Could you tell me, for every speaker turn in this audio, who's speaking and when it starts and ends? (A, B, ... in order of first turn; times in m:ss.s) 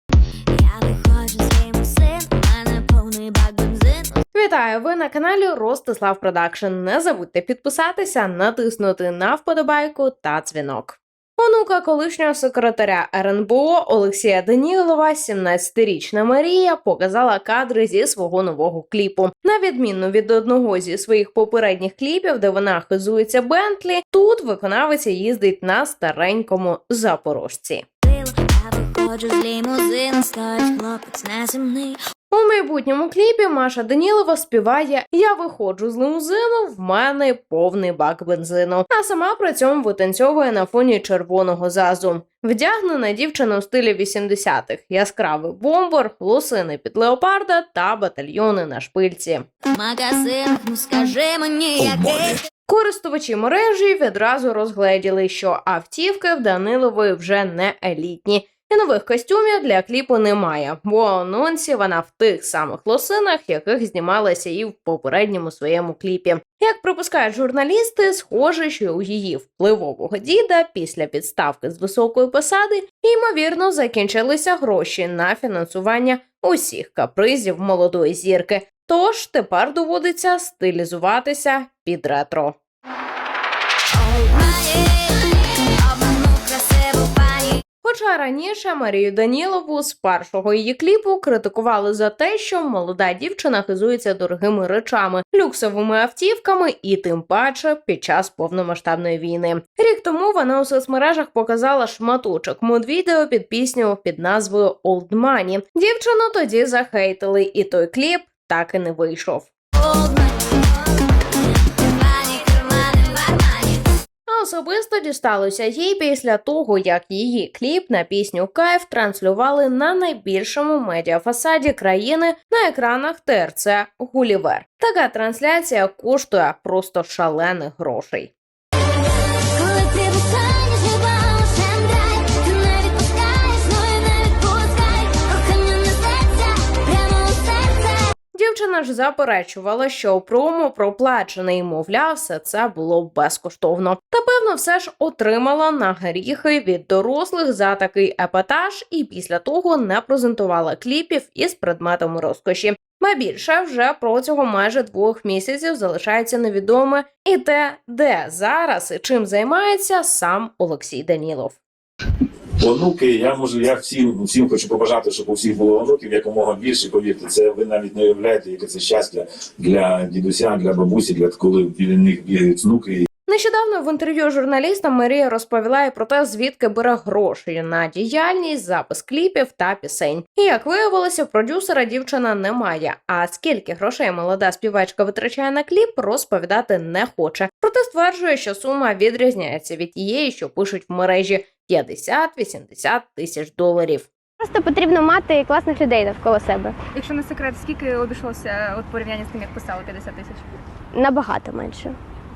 0:00.5-0:04.1 A
0:04.3-0:27.8 B
0:28.0-0:32.0 A
0:32.3-0:49.5 B
0:49.7-0:52.4 A
0:52.7-1:22.6 B
1:24.0-1:27.6 A
1:27.8-1:49.5 B
1:49.8-1:50.7 A
1:51.9-1:53.9 A
1:54.3-2:08.3 B
2:09.5-2:18.0 A
2:18.3-2:41.6 B
2:42.6-2:53.0 C
2:53.3-3:14.1 B
3:14.4-3:16.8 D
3:16.9-3:20.5 E
3:20.9-3:21.9 D